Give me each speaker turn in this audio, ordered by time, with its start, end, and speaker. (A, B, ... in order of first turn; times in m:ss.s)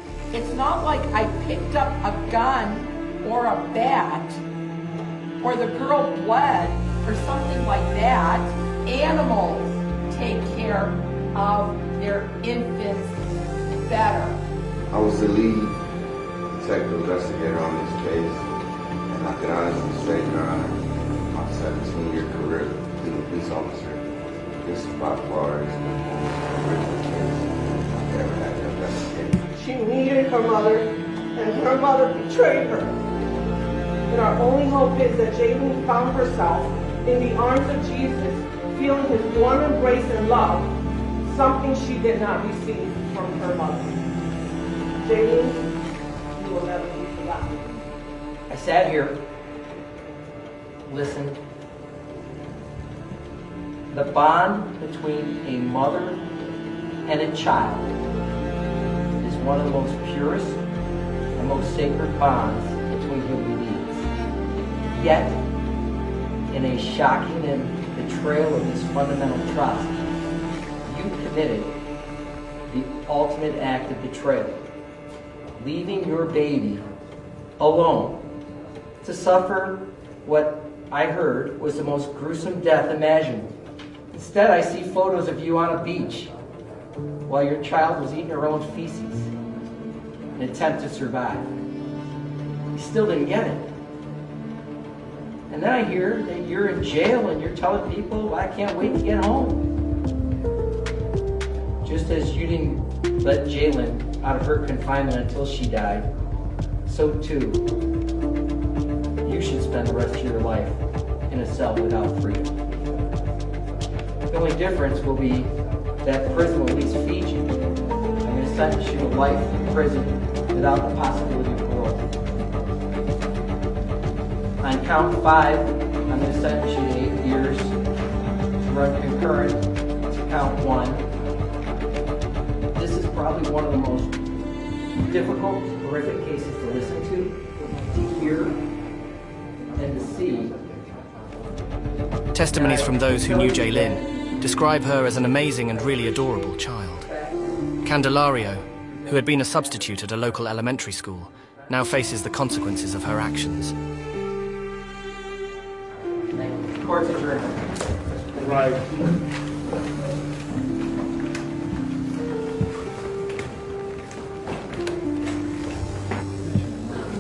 0:00.3-0:04.4 A
0:05.4-0:14.4 A
0:14.9-0:15.8 B
0:16.5-0:18.5 B
0:19.1-0:20.8 B
0:21.3-0:24.0 B
0:24.6-0:29.4 B
0:29.6-0:32.9 C
0:34.1-0:40.7 C
0:41.2-0:44.0 C
0:45.0-0:45.7 C
0:46.3-0:47.8 C
0:48.5-0:49.2 D
0:50.9-0:51.4 D
0:53.9-0:56.2 D
0:57.0-0:57.9 D
0:59.2-1:00.6 D
1:01.4-1:04.1 D
1:04.9-1:05.4 D
1:06.5-1:10.0 D
1:10.8-1:11.8 D
1:12.7-1:14.6 D
1:15.6-1:16.9 D
1:17.6-1:18.3 D
1:19.0-1:23.5 D
1:24.1-1:26.3 D
1:27.3-1:29.3 D
1:30.4-1:31.5 D
1:32.8-1:33.7 D
1:35.5-1:39.7 D
1:41.8-1:46.1 D
1:46.9-1:47.6 D
1:49.2-1:52.6 D
1:54.3-1:57.5 D
1:58.2-2:02.1 D
2:04.6-2:07.8 D
2:08.6-2:11.1 D
2:12.7-2:14.2 D
2:15.0-2:18.6 D
2:19.8-2:20.6 D
2:22.3-2:27.1 E
2:22.5-2:24.1 D
2:27.8-2:33.8 E
2:36.4-2:37.7 D